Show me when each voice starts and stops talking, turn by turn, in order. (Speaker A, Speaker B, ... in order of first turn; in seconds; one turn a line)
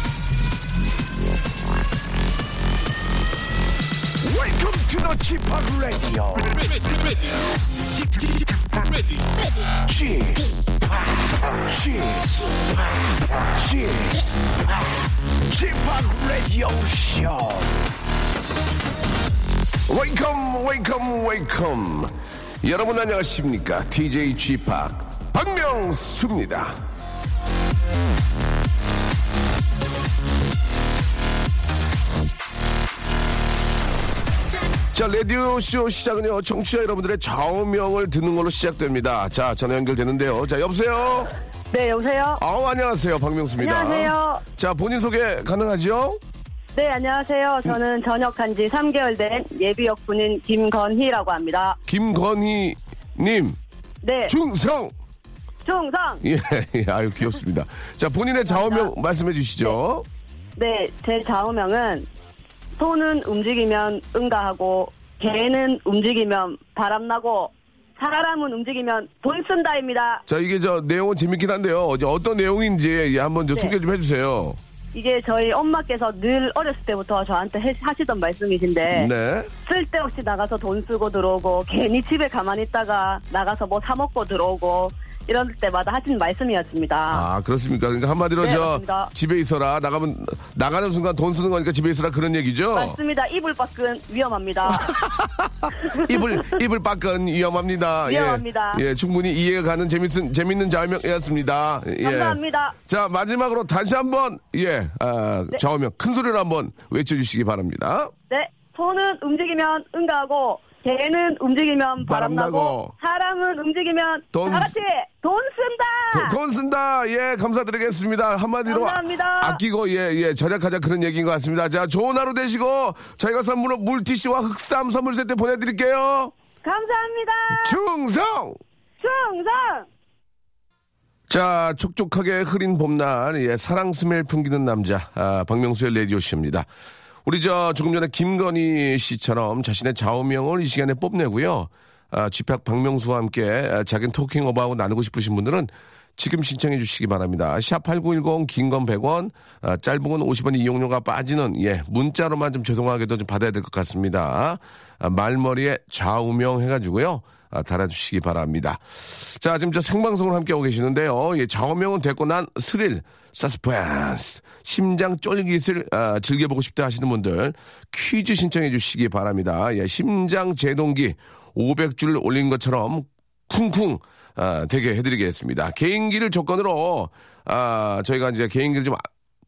Speaker A: 4.2-7.1
Speaker A: 8.0-9.0
Speaker A: 9.8-17.9
Speaker A: 19.9-26.8
Speaker A: 34.9-41.3
Speaker B: 41.7-42.4
Speaker A: 42.4-46.2
Speaker B: 43.6-44.4
Speaker B: 46.7-51.8
Speaker A: 51.9-53.6
Speaker B: 54.0-54.3
Speaker A: 54.3-54.9
Speaker B: 55.6-56.2
Speaker A: 56.2-60.0
Speaker B: 58.5-58.9
Speaker B: 60.6-62.1
Speaker B: 62.8-70.2
Speaker A: 70.3-74.6
Speaker B: 74.9-79.1
Speaker A: 78.9-79.5
Speaker B: 79.6-87.2
Speaker A: 87.1-93.0
Speaker B: 88.4-89.1
Speaker B: 92.7-94.9
Speaker A: 94.7-108.1
Speaker B: 95.9-96.6
Speaker B: 98.0-98.8
Speaker B: 102.0-102.7
Speaker B: 108.3-116.3
Speaker A: 112.0-112.9
Speaker A: 114.3-114.8
Speaker A: 116.1-126.3
Speaker B: 118.7-119.6
Speaker B: 126.6-127.7
Speaker A: 127.5-128.6
Speaker B: 129.0-129.9
Speaker A: 131.3-136.7
Speaker A: 137.2-179.1